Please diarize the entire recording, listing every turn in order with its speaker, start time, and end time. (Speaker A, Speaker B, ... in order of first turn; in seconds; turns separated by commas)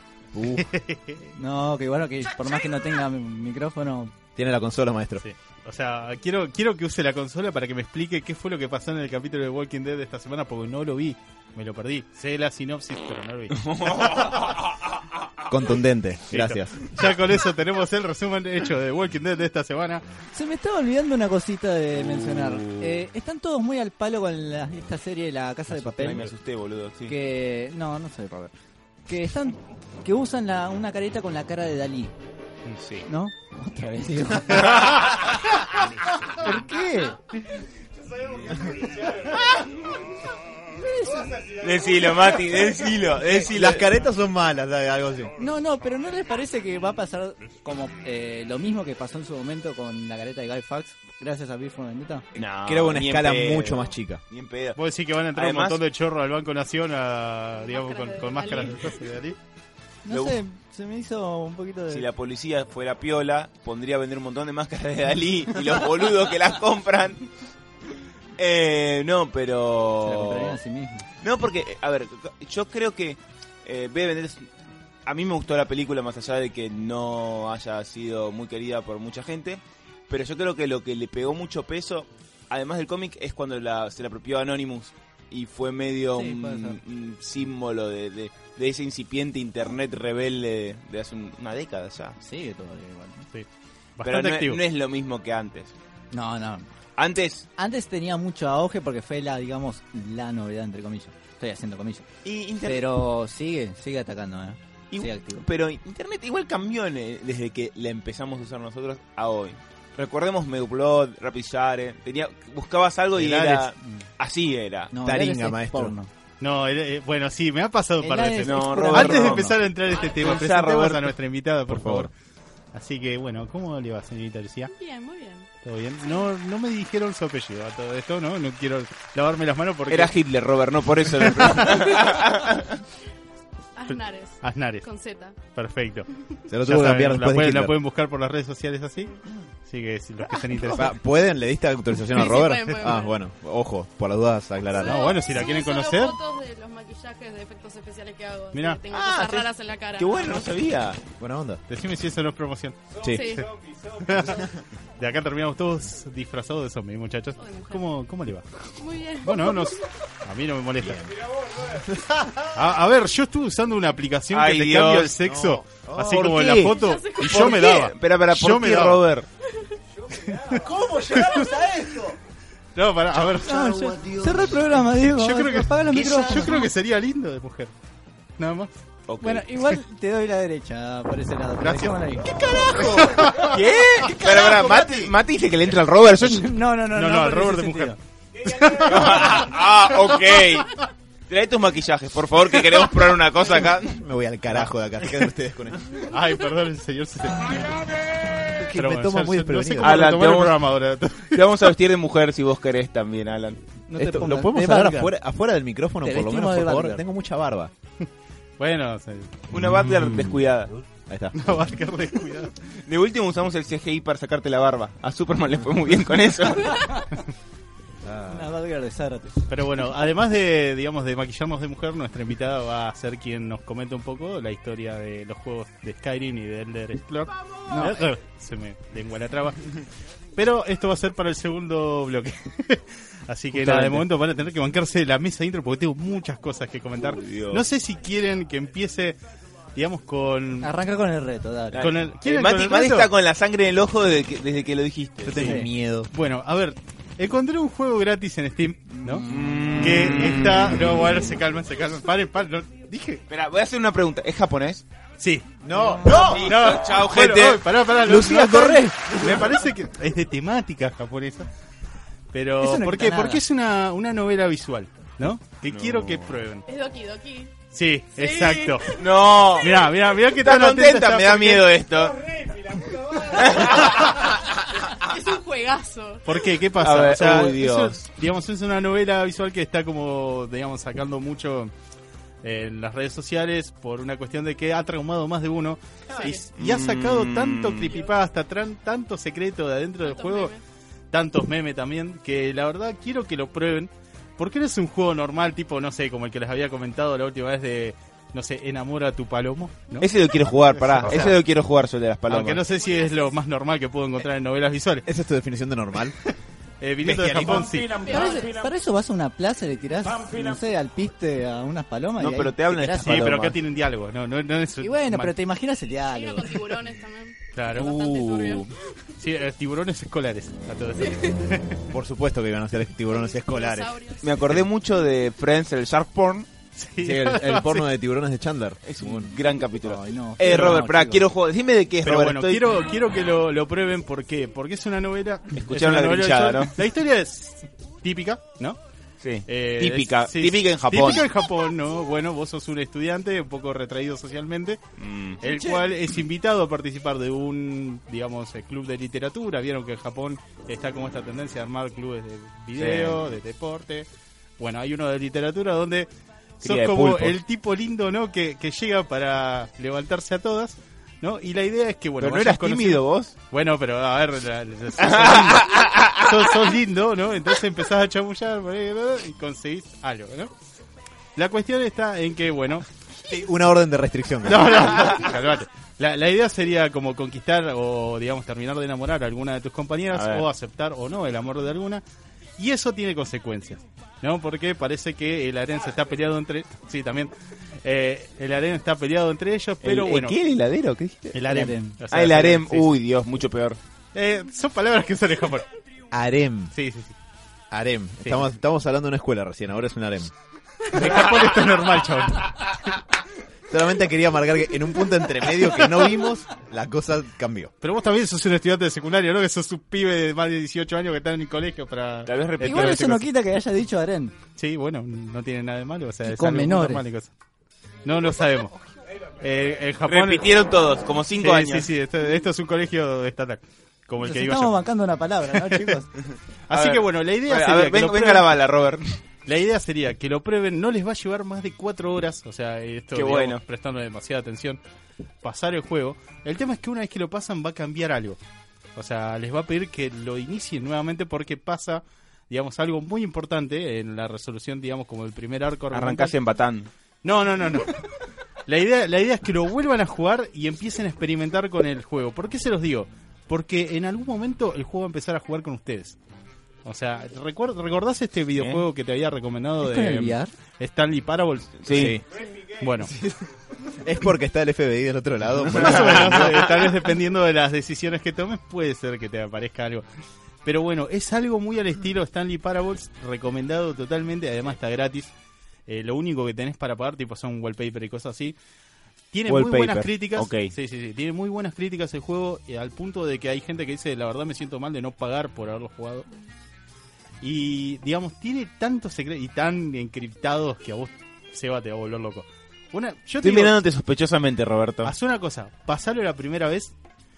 Speaker A: 0.3-0.7, Speaker B: 0.5-1.3, Speaker C: 1.4-4.1, Speaker A: 4.4-5.2, Speaker B: 5.2-14.3, Speaker D: 13.6-14.7, Speaker A: 15.4-16.9, Speaker B: 16.3-20.0, Speaker C: 20.3-26.3, Speaker D: 22.2-22.8, Speaker B: 25.9-26.3, Speaker D: 25.9-27.1, Speaker C: 27.1-28.5, Speaker C: 29.1-32.1, Speaker D: 32.8-33.1, Speaker C: 33.1-35.1, Speaker D: 34.6-35.2, Speaker C: 36.3-37.2, Speaker B: 38.8-39.4, Speaker C: 40.7-41.4, Speaker D: 41.6-43.9, Speaker B: 42.0-42.3, Speaker A: 43.2-45.4, Speaker C: 45.4-52.3, Speaker D: 52.4-54.8, Speaker A: 52.7-54.2, Speaker B: 54.8-59.4, Speaker D: 55.3-55.8, Speaker E: 57.6-59.0, Speaker C: 60.0-62.1, Speaker D: 60.1-60.4, Speaker D: 61.9-67.3, Speaker D: 68.4-70.6, Speaker C: 70.0-71.1, Speaker D: 71.2-74.5, Speaker D: 75.1-92.2, Speaker C: 86.1-86.8, Speaker C: 92.2-93.3, Speaker B: 93.3-94.6, Speaker D: 94.0-95.7, Speaker C: 96.1-96.7, Speaker D: 97.0-97.5, Speaker C: 97.6-102.1, Speaker D: 102.2-102.8, Speaker C: 102.6-105.5, Speaker D: 104.9-114.9, Speaker B: 113.2-113.7, Speaker C: 114.9-116.1, Speaker A: 115.0-115.9, Speaker B: 116.4-122.1, Speaker C: 118.0-119.6, Speaker D: 118.4-121.1, Speaker A: 121.7-122.1, Speaker B: 122.7-124.7, Speaker E: 124.8-125.5, Speaker B: 125.6-130.1, Speaker D: 129.9-132.8, Speaker B: 131.2-132.0, Speaker E: 133.8-135.4, Speaker B: 133.9-134.9, Speaker B: 135.4-136.1, Speaker A: 136.5-137.8, Speaker B: 136.6-139.1, Speaker B: 139.7-140.9, Speaker A: 140.7-145.2, Speaker E: 142.1-143.2, Speaker E: 144.8-150.5, Speaker B: 144.8-146.2, Speaker B: 148.5-148.8, Speaker D: 148.9-151.0, Speaker A: 151.2-151.6, Speaker B: 151.7-158.5, Speaker A: 153.0-153.4, Speaker E: 153.1-153.5, Speaker E: 157.4-157.9, Speaker E: 158.8-159.8, Speaker B: 159.2-161.1, Speaker A: 160.8-161.1, Speaker A: 161.6-162.2, Speaker B: 162.3-169.0, Speaker D: 164.3-165.2, Speaker A: 165.2-166.3, Speaker D: 166.0-169.3, Speaker E: 166.7-167.7, Speaker B: 170.2-170.6, Speaker A: 170.4-172.2, Speaker B: 171.1-171.5, Speaker B: 172.8-173.9, Speaker C: 173.4-176.7, Speaker A: 173.7-174.5, Speaker B: 175.0-177.7, Speaker B: 178.4-178.7, Speaker D: 179.1-179.6, Speaker C: 179.2-182.4, Speaker B: 181.6-182.0, Speaker A: 182.2-185.1, Speaker B: 182.9-183.6, Speaker D: 183.2-186.5, Speaker C: 186.2-188.0, Speaker B: 186.9-189.5, Speaker D: 188.7-194.0, Speaker A: 193.8-196.0, Speaker B: 196.0-197.9, Speaker A: 198.4-200.1, Speaker B: 198.6-201.7, Speaker D: 199.8-200.7, Speaker D: 201.3-203.6, Speaker C: 203.9-205.1, Speaker A: 203.9-207.7, Speaker C: 206.0-207.0, Speaker B: 208.6-209.4, Speaker D: 209.5-210.8, Speaker A: 211.1-211.6, Speaker B: 211.3-212.6, Speaker D: 212.9-216.9, Speaker C: 216.7-217.1, Speaker A: 218.0-218.5, Speaker C: 218.3-219.4, Speaker B: 219.5-229.8, Speaker C: 227.7-228.0, Speaker B: 230.4-239.2, Speaker D: 233.6-234.0, Speaker D: 237.0-237.7, Speaker B: 239.8-240.7, Speaker C: 240.6-241.9, Speaker D: 241.7-245.4, Speaker B: 241.8-243.1, Speaker A: 245.2-246.1, Speaker B: 245.3-253.2, Speaker C: 245.3-245.7, Speaker C: 248.9-249.6, Speaker D: 249.3-251.0, Speaker D: 253.3-254.8, Speaker B: 255.2-255.5, Speaker A: 255.6-256.5, Speaker C: 255.7-256.4, Speaker D: 256.1-259.4, Speaker B: 256.2-261.5, Speaker B: 262.3-266.7, Speaker C: 262.6-263.4, Speaker D: 265.7-266.4, Speaker E: 266.7-269.5, Speaker B: 267.7-268.9, Speaker D: 268.9-274.4, Speaker B: 269.6-271.7, Speaker E: 274.0-276.3, Speaker B: 276.3-281.7, Speaker D: 276.8-278.0, Speaker B: 282.4-290.5, Speaker E: 286.2-286.5, Speaker D: 286.6-287.9, Speaker E: 290.0-290.6, Speaker B: 291.1-300.1, Speaker D: 300.0-302.6, Speaker B: 300.8-301.3, Speaker B: 302.3-305.1, Speaker E: 302.8-303.3, Speaker A: 305.1-306.2, Speaker B: 306.8-308.1, Speaker D: 307.0-307.7, Speaker E: 307.8-308.5, Speaker C: 308.1-313.4, Speaker D: 312.2-313.6, Speaker B: 313.0-315.3, Speaker C: 314.8-316.6, Speaker E: 316.1-318.8, Speaker B: 317.5-318.0, Speaker D: 317.8-318.7, Speaker B: 319.2-321.9, Speaker E: 321.0-321.4, Speaker A: 321.9-324.6, Speaker E: 323.1-324.4, Speaker D: 324.2-326.5, Speaker B: 326.8-327.9, Speaker A: 327.0-329.3, Speaker D: 328.9-332.7, Speaker C: 329.8-331.2, Speaker B: 330.5-330.8, Speaker B: 332.0-338.8, Speaker D: 335.6-336.8, Speaker D: 339.2-341.3, Speaker B: 339.5-344.8, Speaker D: 345.0-345.4, Speaker B: 345.4-354.1, Speaker C: 345.4-345.9, Speaker D: 352.8-353.2, Speaker B: 354.6-356.1, Speaker B: 356.6-370.5, Speaker D: 356.6-357.4, Speaker D: 362.2-363.3, Speaker D: 365.0-366.5, Speaker B: 371.4-372.9, Speaker A: 373.2-375.1, Speaker B: 374.4-382.0, Speaker D: 374.8-375.3, Speaker D: 380.1-380.5, Speaker B: 382.6-387.3, Speaker B: 387.8-390.4, Speaker D: 389.8-391.6, Speaker B: 391.3-392.9, Speaker C: 391.5-392.0, Speaker D: 392.1-393.8, Speaker B: 394.1-395.7, Speaker A: 396.1-396.7, Speaker B: 396.7-397.1, Speaker A: 397.7-400.3, Speaker B: 400.9-402.8, Speaker A: 403.7-407.7, Speaker B: 407.8-413.2, Speaker D: 412.3-413.2, Speaker C: 412.6-414.4, Speaker B: 414.6-417.3, Speaker C: 416.2-417.0, Speaker B: 418.1-418.7, Speaker B: 419.4-420.5, Speaker D: 420.0-421.9, Speaker B: 421.4-424.8, Speaker C: 424.2-426.1, Speaker B: 425.6-425.9, Speaker B: 426.7-428.5, Speaker D: 426.7-429.2, Speaker B: 429.5-434.8, Speaker D: 433.1-433.6, Speaker B: 435.4-438.4, Speaker B: 438.9-446.3, Speaker D: 445.9-446.9, Speaker B: 447.2-448.0, Speaker B: 448.7-456.2, Speaker B: 456.9-463.1, Speaker D: 458.6-458.9, Speaker C: 459.8-460.5, Speaker D: 461.8-462.2, Speaker A: 461.9-462.2, Speaker A: 463.9-466.6, Speaker D: 465.6-466.7, Speaker B: 465.7-470.0, Speaker B: 470.6-475.3, Speaker B: 475.9-478.6, Speaker B: 479.3-486.3, Speaker D: 479.5-480.7, Speaker B: 487.4-493.8, Speaker D: 493.4-495.1, Speaker B: 495.1-496.9